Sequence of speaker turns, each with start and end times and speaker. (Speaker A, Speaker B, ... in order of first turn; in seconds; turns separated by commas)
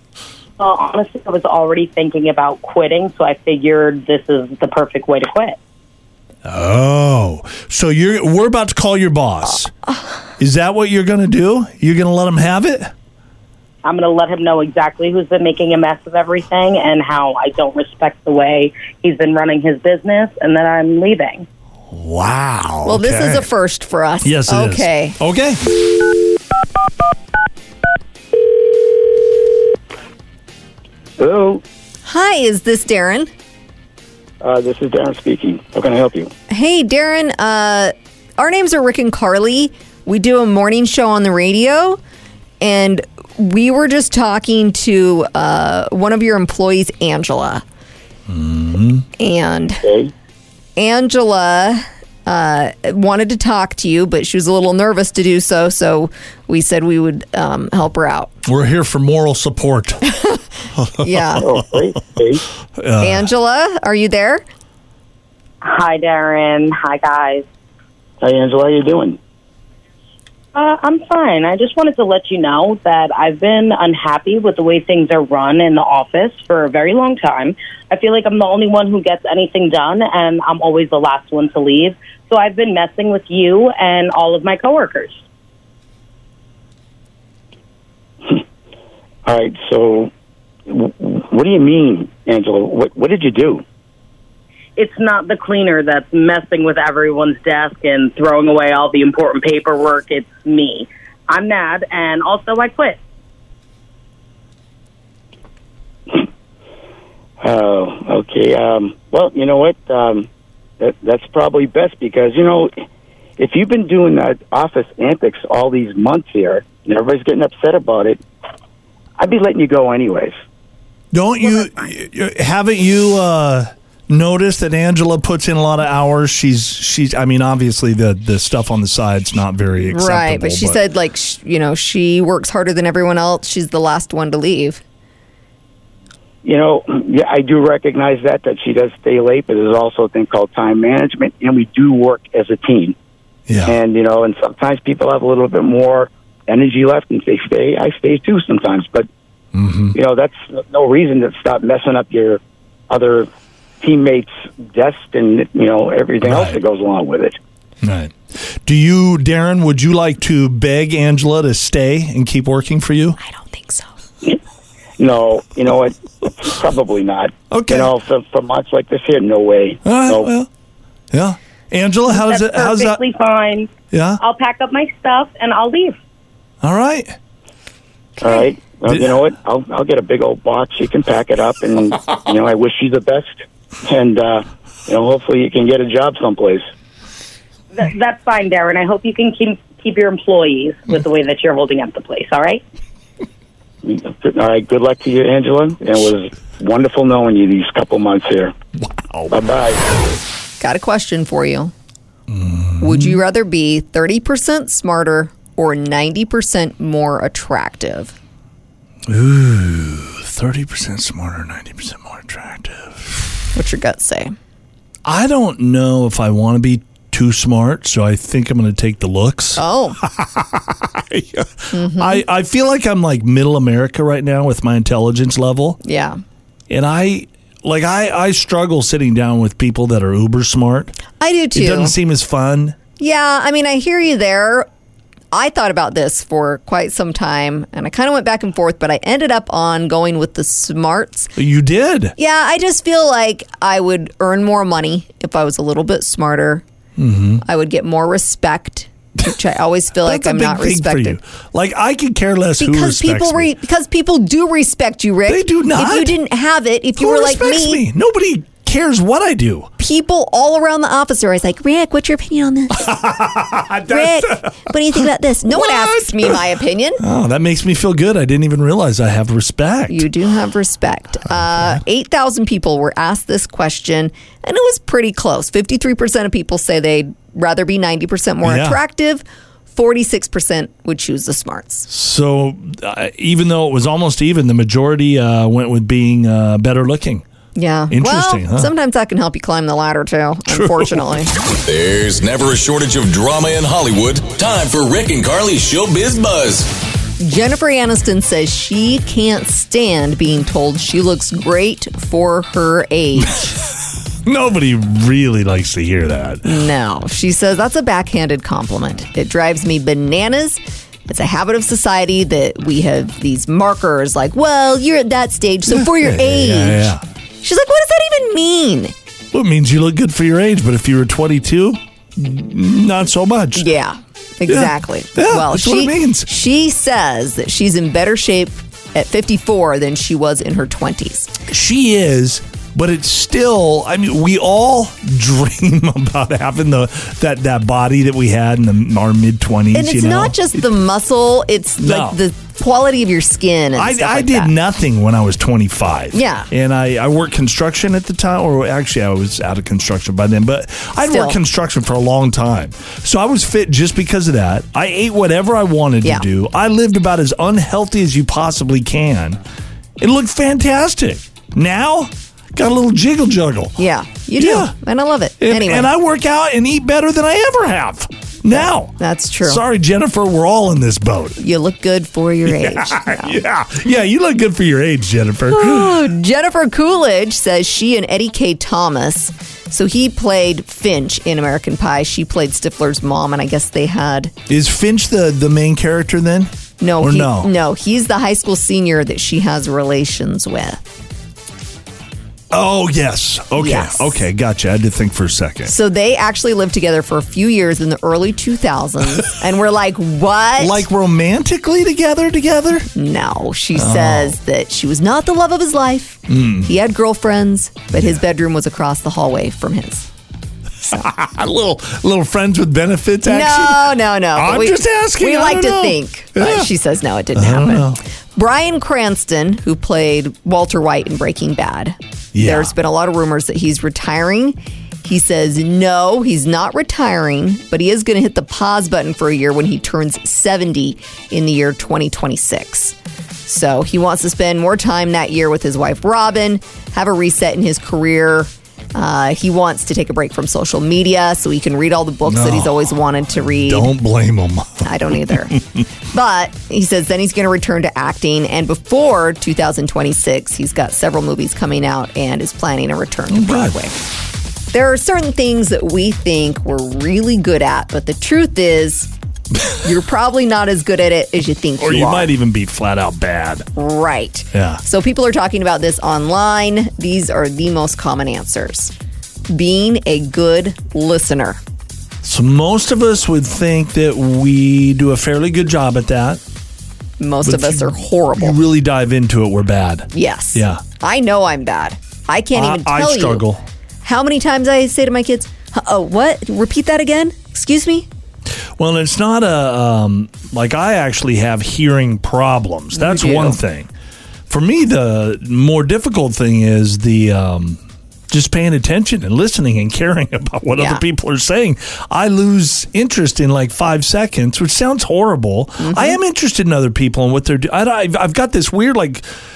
Speaker A: 0.6-5.6, Speaker B: 6.5-9.7, Speaker B: 10.4-12.9, Speaker A: 13.8-21.5, Speaker B: 21.9-23.5, Speaker C: 22.9-25.2, Speaker B: 24.2-25.6, Speaker D: 31.2-31.6, Speaker C: 32.0-33.3, Speaker D: 34.4-36.3, Speaker C: 36.5-42.0, Speaker C: 42.6-47.6, Speaker B: 48.3-49.1, Speaker C: 49.2-49.8, Speaker D: 49.8-50.1, Speaker C: 50.8-58.3, Speaker B: 58.5-60.0, Speaker C: 60.1-60.5, Speaker B: 60.8-61.6, Speaker C: 61.0-61.5, Speaker D: 61.4-62.4, Speaker B: 62.8-63.3, Speaker C: 63.0-64.5, Speaker A: 65.6-67.5, Speaker D: 68.2-69.2, Speaker A: 70.5-85.2, Speaker D: 89.3-90.1, Speaker D: 90.7-93.6, Speaker A: 94.8-103.0, Speaker D: 107.4-110.3, Speaker D: 110.8-112.8, Speaker D: 113.4-118.2, Speaker D: 119.2-120.4, Speaker B: 121.1-130.8, Speaker C: 129.9-134.8, Speaker D: 136.4-142.9, Speaker B: 143.5-143.8, Speaker D: 143.7-149.1, Speaker B: 149.5-150.0, Speaker D: 149.9-153.3, Speaker D: 153.8-157.4, Speaker B: 156.2-156.6, Speaker B: 157.8-163.2, Speaker C: 163.2-163.9, Speaker D: 165.0-170.3, Speaker B: 167.5-167.9, Speaker B: 169.8-170.5, Speaker B: 171.1-173.0, Speaker A: 172.1-173.7, Speaker B: 173.9-174.2, Speaker A: 174.2-176.0, Speaker B: 176.6-177.2, Speaker D: 178.2-186.6, Speaker B: 178.9-179.2, Speaker A: 187.7-192.6, Speaker D: 193.8-198.5, Speaker B: 198.8-199.3, Speaker D: 199.3-199.8, Speaker C: 200.6-201.7, Speaker B: 202.3-203.2, Speaker C: 202.8-208.1, Speaker B: 209.1-213.3, Speaker C: 213.6-214.3, Speaker B: 215.0-225.8, Speaker C: 219.6-220.0, Speaker C: 221.7-222.2, Speaker C: 225.8-226.2, Speaker B: 226.7-231.0, Speaker C: 231.2-231.9, Speaker B: 231.5-232.8, Speaker C: 233.0-234.7, Speaker C: 235.3-241.3, Speaker B: 241.4-242.2, Speaker C: 242.2-246.6, Speaker B: 247.0-247.4, Speaker C: 247.4-251.2, Speaker B: 250.0-253.5, Speaker C: 252.6-257.8, Speaker B: 255.3-256.2, Speaker B: 257.0-259.7, Speaker C: 259.8-263.1, Speaker B: 262.8-266.4, Speaker C: 263.9-267.0, Speaker B: 267.0-270.1, Speaker C: 269.9-281.9, Speaker B: 278.4-278.8, Speaker B: 281.9-287.2, Speaker C: 287.6-291.3, Speaker B: 287.9-288.7, Speaker B: 290.5-291.2, Speaker E: 291.4-296.7, Speaker C: 297.2-303.5, Speaker B: 303.2-306.5, Speaker C: 306.4-318.9, Speaker B: 315.7-317.0, Speaker B: 319.3-323.7, Speaker C: 323.6-331.4, Speaker B: 324.5-326.3, Speaker B: 331.5-340.4, Speaker C: 339.7-344.5, Speaker B: 341.8-342.2, Speaker B: 343.8-359.4, Speaker C: 346.1-346.5, Speaker C: 351.0-351.4, Speaker B: 360.0-363.8, Speaker C: 363.8-365.9, Speaker B: 364.4-364.8, Speaker B: 365.4-371.4, Speaker C: 368.5-369.6, Speaker C: 371.4-373.4, Speaker B: 372.4-376.0, Speaker C: 375.5-384.3, Speaker B: 384.5-387.5, Speaker C: 386.8-390.9, Speaker B: 392.5-395.7, Speaker C: 393.6-394.2, Speaker C: 395.6-400.9, Speaker B: 400.6-402.9, Speaker C: 402.9-410.1, Speaker B: 403.7-404.4, Speaker B: 406.3-406.7, Speaker B: 407.9-408.2, Speaker B: 410.9-416.7, Speaker C: 413.2-432.9, Speaker B: 417.4-418.0, Speaker B: 422.3-422.7, Speaker C: 433.5-443.9, Speaker B: 442.2-442.7, Speaker B: 443.6-445.6, Speaker C: 444.8-454.0, Speaker B: 453.3-453.8, Speaker C: 454.7-459.1, Speaker C: 459.8-462.3, Speaker B: 461.8-463.7, Speaker C: 463.8-468.9, Speaker B: 464.5-464.8, Speaker C: 469.5-471.6, Speaker B: 472.2-476.4, Speaker C: 477.2-478.6, Speaker B: 477.4-480.8, Speaker C: 480.1-483.4, Speaker B: 482.5-483.6, Speaker C: 484.0-488.1, Speaker B: 488.8-493.9, Speaker C: 492.9-493.6, Speaker B: 494.5-509.2, Speaker C: 500.8-501.0, Speaker C: 505.8-506.2